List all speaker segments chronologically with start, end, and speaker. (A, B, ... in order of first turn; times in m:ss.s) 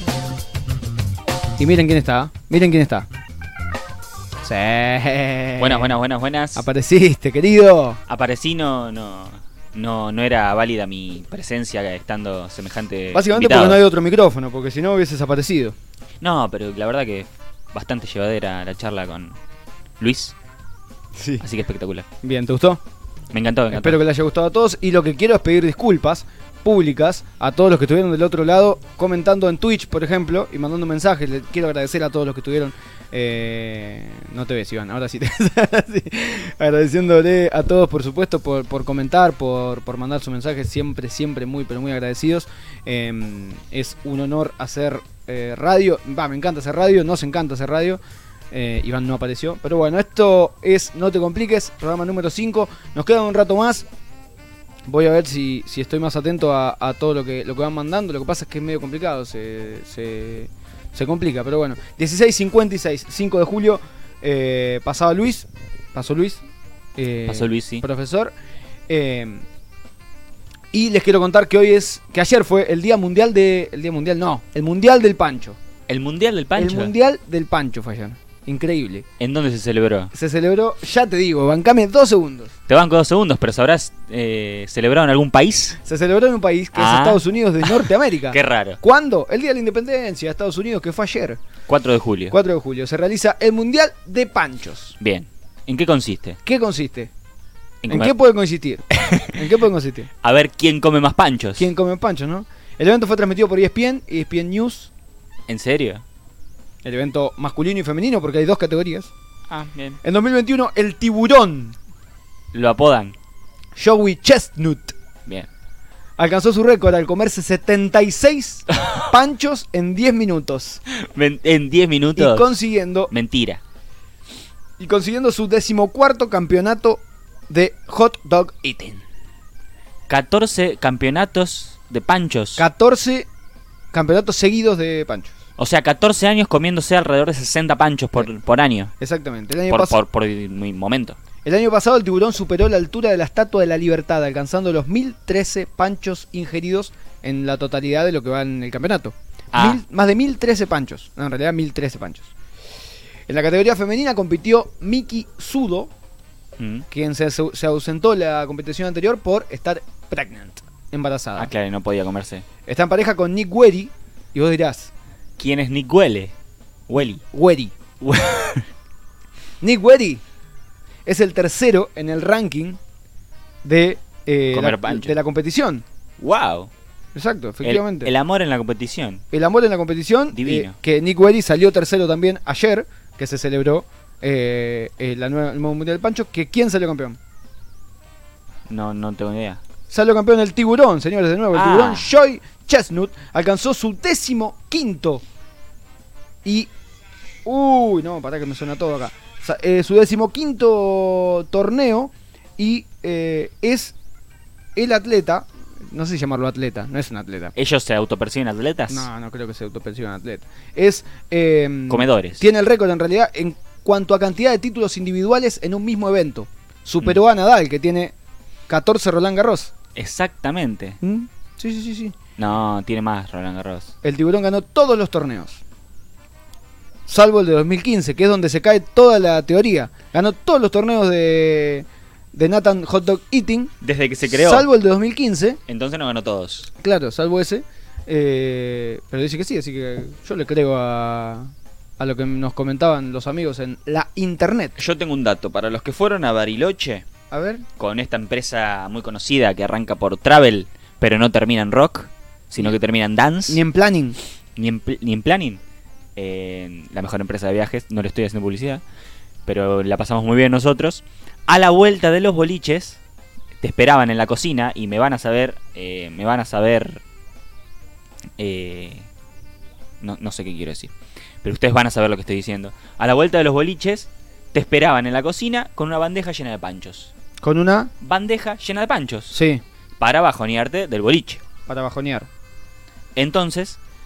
0:01.6-0:03.1 A
0:04.4-0:06.0 A
0:05.6-0:06.6 B
0:06.5-0:08.0 A
0:08.1-0:13.8 B
0:13.1-0:15.7 A
0:16.2-0:19.4 B
0:20.0-0:20.3 B
0:21.2-0:21.5 A
0:21.4-0:22.0 B
0:22.2-0:22.8 A
0:23.3-0:24.0 B
0:23.7-0:48.0 A
0:48.5-0:53.8 A
0:54.9-1:06.4 A
1:07.0-1:08.3 A
1:07.2-1:07.8 B
1:08.9-1:09.4 A
1:10.7-1:15.6 A
1:15.9-1:16.9 B
1:16.5-1:19.0 A
1:19.2-1:20.1 B
1:20.1-1:22.5 A
1:22.7-1:25.8 B
1:25.8-1:31.4 A
1:26.7-1:28.8 B
1:31.7-1:32.3 B
1:32.3-1:35.0 A
1:35.0-1:36.4 B
1:36.4-1:37.1 A
1:37.8-1:38.1 B
1:37.9-1:40.1 A
1:38.9-1:39.3 B
1:40.2-1:41.7 B
1:41.6-1:44.9 A
1:45.5-1:46.0 B
1:46.8-1:49.1 A
1:49.5-1:50.0 B
1:50.0-1:51.8 A
1:52.5-1:53.1 B
1:53.8-1:54.9 A
1:56.2-2:00.8 A
2:01.0-2:02.6 B
2:02.2-2:03.1 A
2:03.1-2:03.6 B
2:04.8-2:09.0 A
2:10.1-2:12.6 B
2:12.6-2:13.2 A
2:13.9-2:15.3 A
2:15.6-2:18.9 B
2:19.0-2:20.0 A
2:19.7-2:21.2 B
2:21.4-2:32.3 A
2:29.5-2:29.8 B
2:33.3-2:35.9 A
2:36.6-2:36.8 B
2:36.9-2:41.5 A
2:41.4-2:42.4 B
2:42.6-2:44.9 A
2:45.4-2:46.3 B
2:46.9-2:47.2 B
2:47.3-2:47.7 A
2:48.0-2:48.7 B
2:49.6-2:50.2 A
2:51.0-2:52.8 A
2:53.6-2:55.8 A
2:54.5-2:55.1 B
2:56.2-2:56.7 B
2:57.1-2:58.1 A
2:57.6-2:59.2 B
2:59.3-3:07.2 A
3:00.3-3:00.8 B
3:08.7-3:09.6 B
3:09.9-3:15.2 A
3:11.5-3:12.1 B
3:16.4-3:16.7 A
3:17.4-3:23.9 A
3:24.8-3:27.5 A
3:27.6-3:29.1 B
3:28.9-3:38.1 A
3:31.9-3:32.4 B
3:38.7-3:39.7 A
3:40.0-3:41.0 B
3:41.0-3:42.1 A
3:42.4-3:43.9 B
3:44.0-3:45.6 A
3:47.1-3:53.7 A
3:53.8-3:54.7 B
3:54.2-3:55.6 A
3:55.7-3:56.7 B
3:56.8-4:04.8 A
4:04.8-4:07.0 B
4:07.3-4:07.6 A
4:07.8-4:13.6 B
4:13.5-4:14.2 A
4:14.6-4:15.6 B
4:16.2-4:18.8 B
4:19.5-4:23.0 B
4:23.6-4:27.0 B
4:28.4-4:29.1 B
4:30.0-4:30.9 B
4:31.4-4:37.1 B
4:37.4-4:37.9 A
4:38.0-4:39.3 B
4:39.3-4:39.6 A
4:40.0-4:41.4 B
4:41.7-4:42.3 A
4:43.2-4:43.8 B